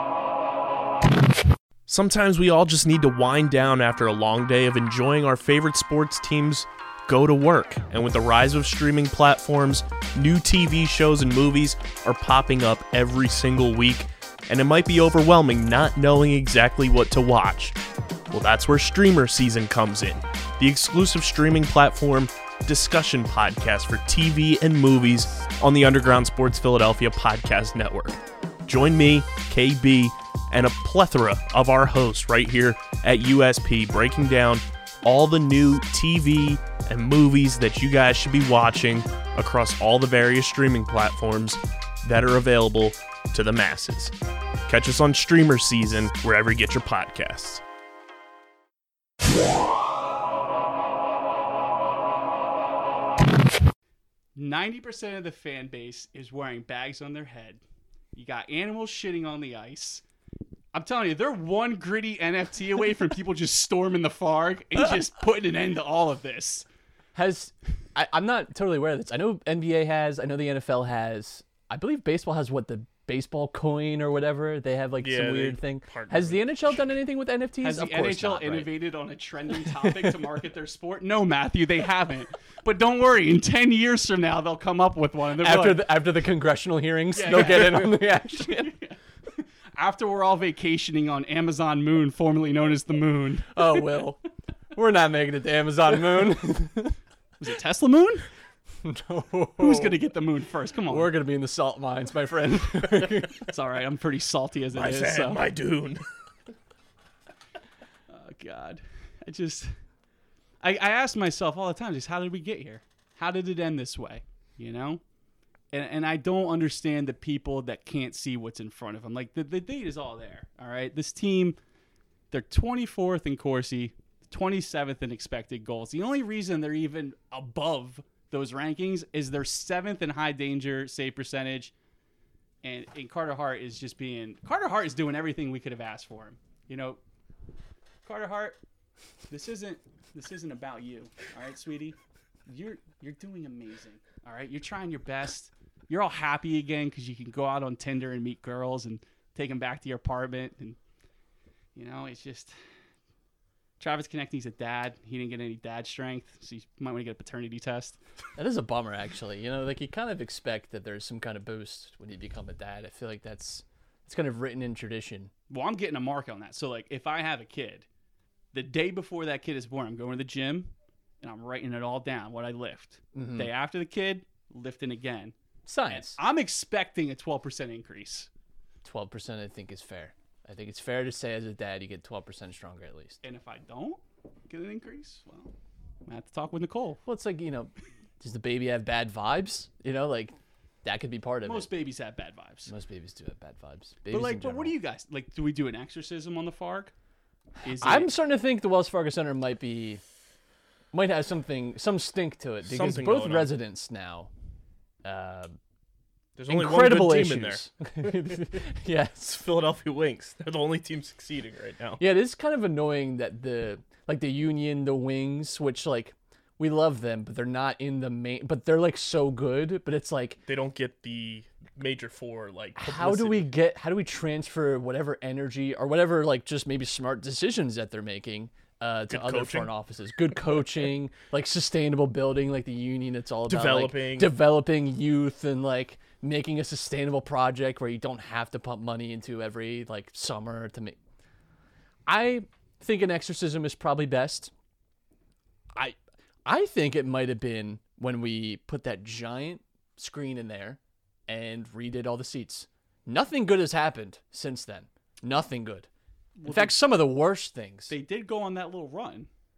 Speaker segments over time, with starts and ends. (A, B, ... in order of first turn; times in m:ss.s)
0:01.9-0:17.8 A
0:18.3-0:44.1 A
0:44.7-0:47.6 A
0:54.4-0:57.6 B
0:58.2-1:00.0 B
1:00.7-1:06.7 B
1:07.2-1:18.7 C
1:15.0-1:16.6 A
1:17.6-1:25.9 B
1:19.5-1:20.2 C
1:25.4-1:28.7 C
1:27.1-1:34.0 B
1:33.5-1:34.2 C
1:34.8-1:37.0 C
1:37.4-1:38.3 B
1:38.8-1:40.0 C
1:39.6-1:41.2 B
1:40.9-1:43.5 C
1:43.3-1:45.4 B
1:44.7-1:46.1 A
1:48.1-1:49.8 B
1:50.6-1:55.0 B
1:55.7-2:01.6 B
2:02.3-2:11.7 B
2:12.6-2:17.0 B
2:18.0-2:18.6 B
2:19.3-2:30.8 B
2:31.8-2:32.6 B
2:33.8-2:38.0 B
2:38.4-2:45.3 C
2:45.5-2:47.9 B
2:48.5-2:58.3 B
2:53.1-2:53.5 C
2:55.7-2:56.2 C
2:58.8-3:03.2 C
3:03.2-3:05.5 B
3:06.0-3:07.0 B
3:07.0-3:11.7 C
3:11.4-3:12.7 B
3:12.7-3:14.7 C
3:14.1-3:16.9 B
3:17.6-3:18.1 B
3:17.7-3:20.0 C
3:20.9-3:24.3 C
3:22.6-3:23.5 A
3:25.0-3:25.6 C
3:26.4-3:28.6 A
3:26.5-3:29.4 C
3:29.2-3:32.0 A
3:32.0-3:40.4 C
3:40.5-3:43.5 A
3:42.8-4:01.0 C
3:49.1-3:49.7 A
3:53.5-3:54.3 A
4:02.1-4:04.5 C
4:05.7-4:15.9 C
4:16.4-4:16.8 B
4:16.4-4:17.9 C
4:17.9-4:19.3 B